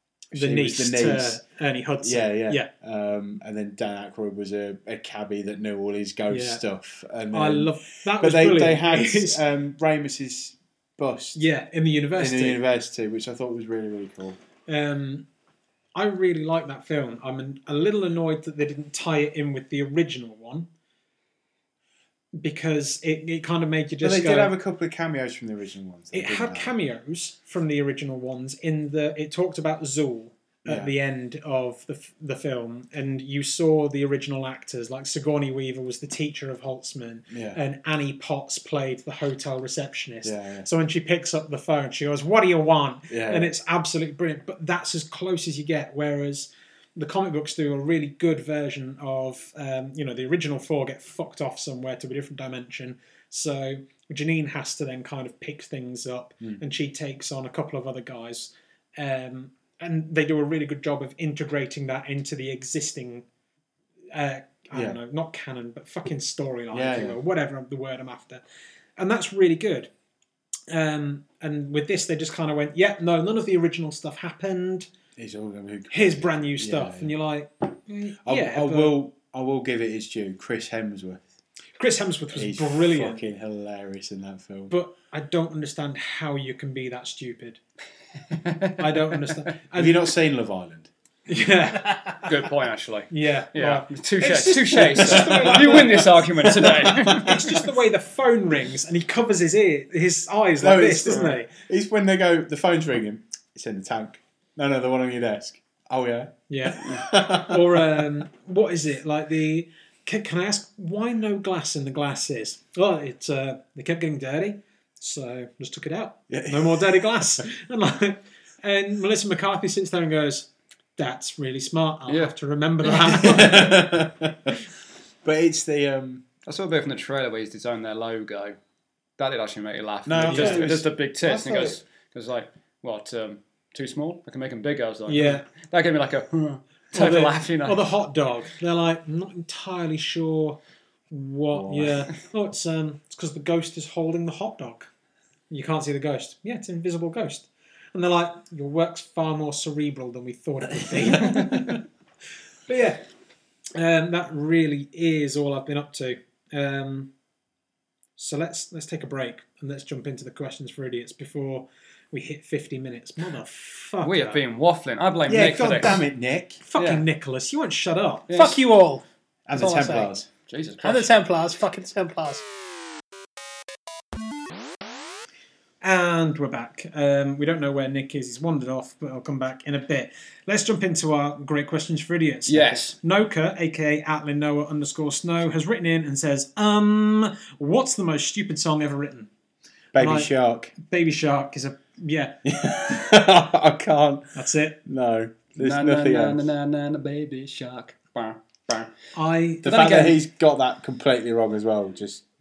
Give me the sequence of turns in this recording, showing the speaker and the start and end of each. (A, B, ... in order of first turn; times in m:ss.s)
0:00.3-0:01.4 A
0:00.3-0:02.7 B
0:02.0-0:11.4 A
0:06.3-0:06.6 B
0:07.3-0:09.4 B
0:11.3-0:12.6 B
0:12.2-0:14.4 A
0:14.7-0:15.2 B
0:15.9-0:20.7 B
0:22.4-0:24.5 B
0:24.0-0:26.7 A
0:26.1-1:03.2 B
0:30.6-0:30.9 A
0:37.3-0:37.6 A
0:40.2-0:40.7 A
0:43.1-0:43.5 A
1:04.1-1:08.4 B
1:04.7-1:05.0 A
1:06.7-1:07.2 A
1:09.0-1:09.9 B
1:10.7-1:14.9 B
1:15.2-1:17.1 A
1:15.9-1:19.0 B
1:18.2-1:21.3 A
1:21.8-1:23.2 B
1:22.3-1:24.7 A
1:24.7-1:27.6 B
1:28.3-1:29.4 C
1:28.8-1:30.1 B
1:29.7-1:30.9 A
1:31.3-1:32.3 B
1:32.2-1:37.4 C
1:33.1-1:41.5 B
1:34.7-1:37.3 A
1:40.6-1:48.0 A
1:46.5-2:03.9 B
1:56.3-1:57.4 A
2:02.1-2:02.3 C
2:03.0-2:04.6 A
2:05.2-2:06.2 A
2:06.4-2:08.6 C
2:09.2-2:17.8 C
2:10.0-2:11.8 A
2:10.2-2:10.7 B
2:15.1-2:15.4 B
2:16.9-2:20.6 B
2:21.1-2:24.9 B
2:21.5-2:22.1 A
2:25.5-2:31.8 B
2:32.7-2:33.0 B
2:33.7-2:37.1 B
2:38.2-2:44.4 B
2:44.0-2:46.0 C
2:45.3-2:46.6 A
2:46.6-2:48.4 B
2:46.8-2:47.0 C
2:48.3-2:48.6 C
2:48.3-2:49.0 D
2:49.5-2:50.3 A
2:49.6-2:50.1 D
2:50.5-2:51.1 C
2:50.8-2:52.4 D
2:55.8-3:09.3 B
3:02.5-3:03.0 C
3:09.9-3:10.7 A
3:10.0-3:12.4 B
3:12.4-3:16.4 A
3:14.3-3:14.8 B
3:15.6-3:18.9 C
3:19.1-3:20.2 B
3:19.6-3:22.2 A